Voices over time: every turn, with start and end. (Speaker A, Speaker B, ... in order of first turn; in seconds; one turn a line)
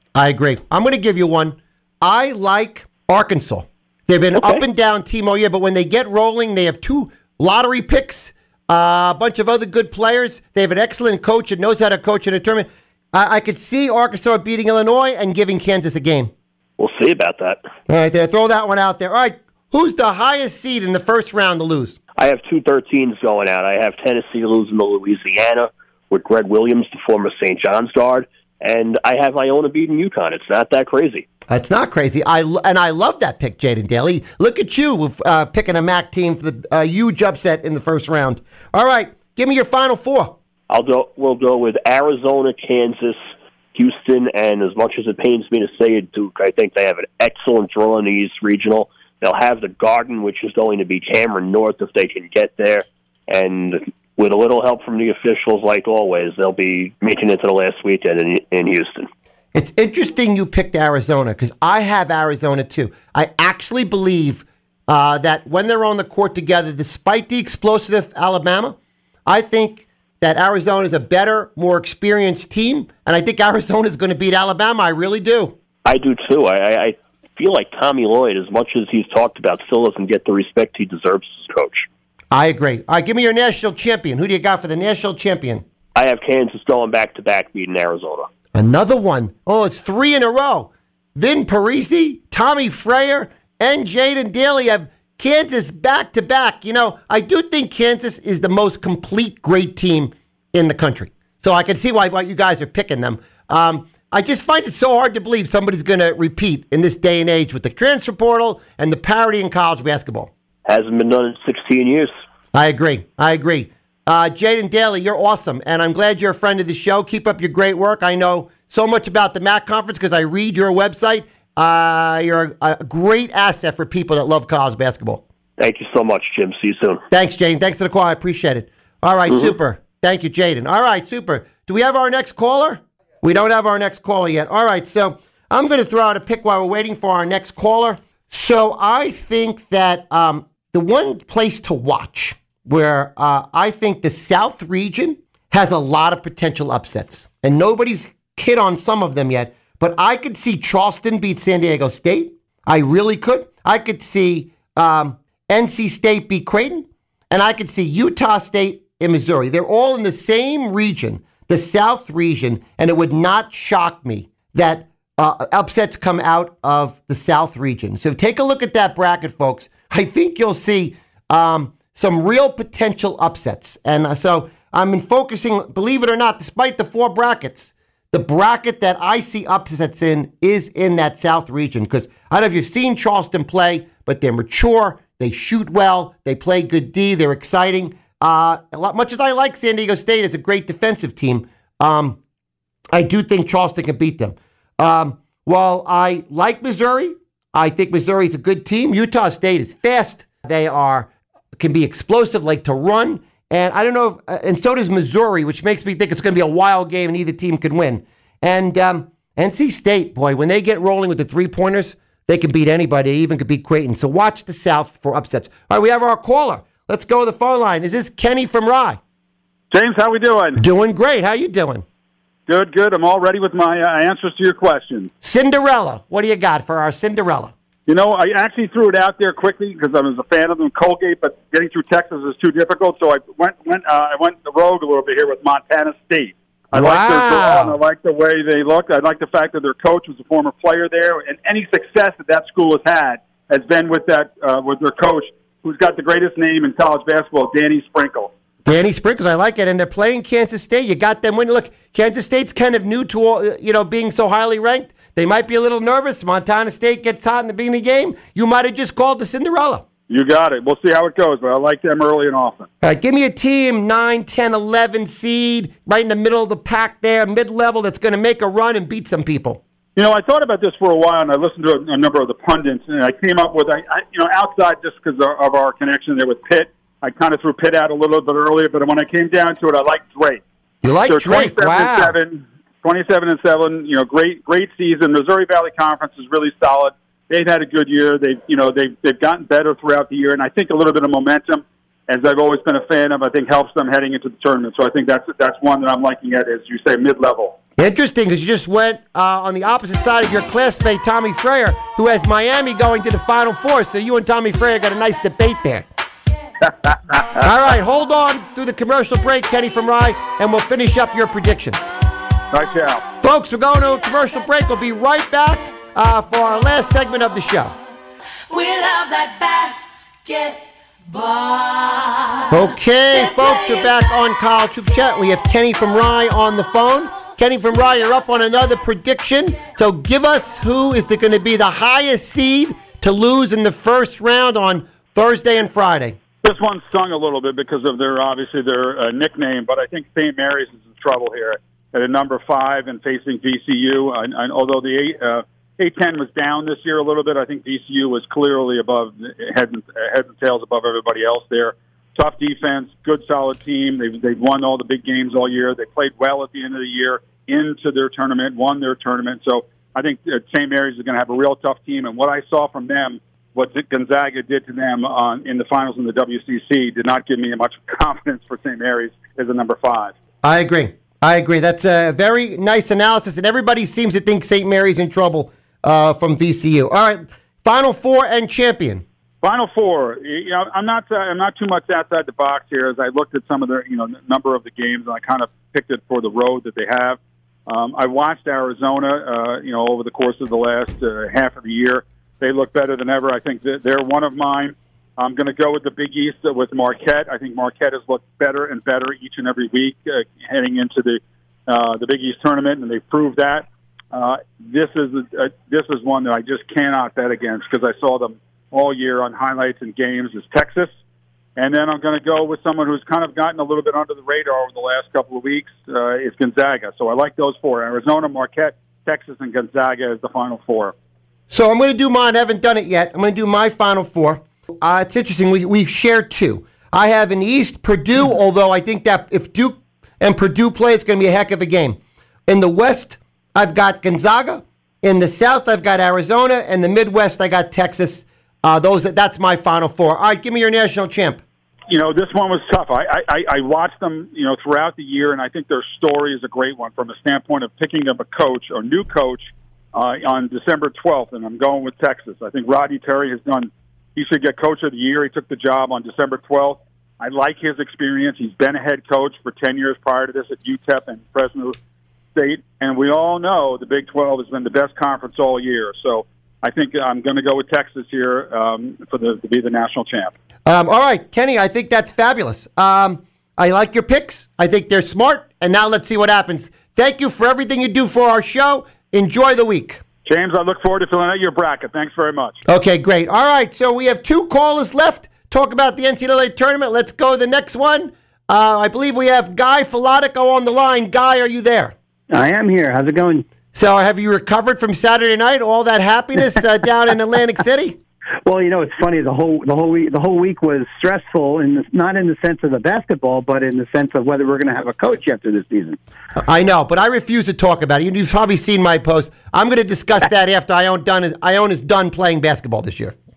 Speaker A: 0.1-16.3
Speaker B: 4.3-4.6
Speaker B: 16.8-17.6
Speaker A: 17.9-22.0
Speaker B: 22.2-31.2
Speaker A: 31.5-40.3
Speaker B: 40.7-59.1
Speaker A: 59.5-75.5
Speaker B: 75.8-81.9
Speaker A: 82.3-85.6
Speaker B: 86.0-88.3
Speaker A: 88.5-110.3
Speaker B: 110.7-112.1
Speaker A: 112.5-125.2
Speaker B: 125.6-127.0
Speaker A: 127.1-192.2
Speaker B: 129.3-129.5
Speaker A: 192.9-219.0
Speaker C: 219.7-220.6
Speaker A: 220.6-221.8
Speaker C: 222.5-225.1
Speaker A: 225.2-227.5
Speaker C: 227.9-248.3
Speaker A: 236.7-237.8
Speaker A: 248.6-259.8
Speaker C: 260.1-262.7
Speaker A: 262.8-269.6
Speaker C: 269.9-280.4
Speaker A: 280.8-282.1
Speaker C: 281.1-297.6
Speaker A: 297.8-305.8
Speaker C: 306.6-307.4
Speaker A: 307.4-311.9
Speaker C: 312.5-313.0
Speaker A: 313.2-317.7
Speaker D: 318.5-324.1
Speaker A: 322.5-336.2
Speaker C: 336.4-370.1
Speaker A: 370.4-379.0
Speaker C: 379.4-410.9
Speaker C: 411.6-420.9
Speaker A: 421.5-441.4
Speaker C: 441.9-461.8
Speaker C: 462.3-470.3
Speaker A: 470.6-480.0
Speaker C: 480.2-482.6
Speaker A: 482.7-491.9
Speaker E: 492.3-493.5
Speaker A: 493.7-498.0
Speaker E: 498.4-506.0
Speaker A: 506.4-513.1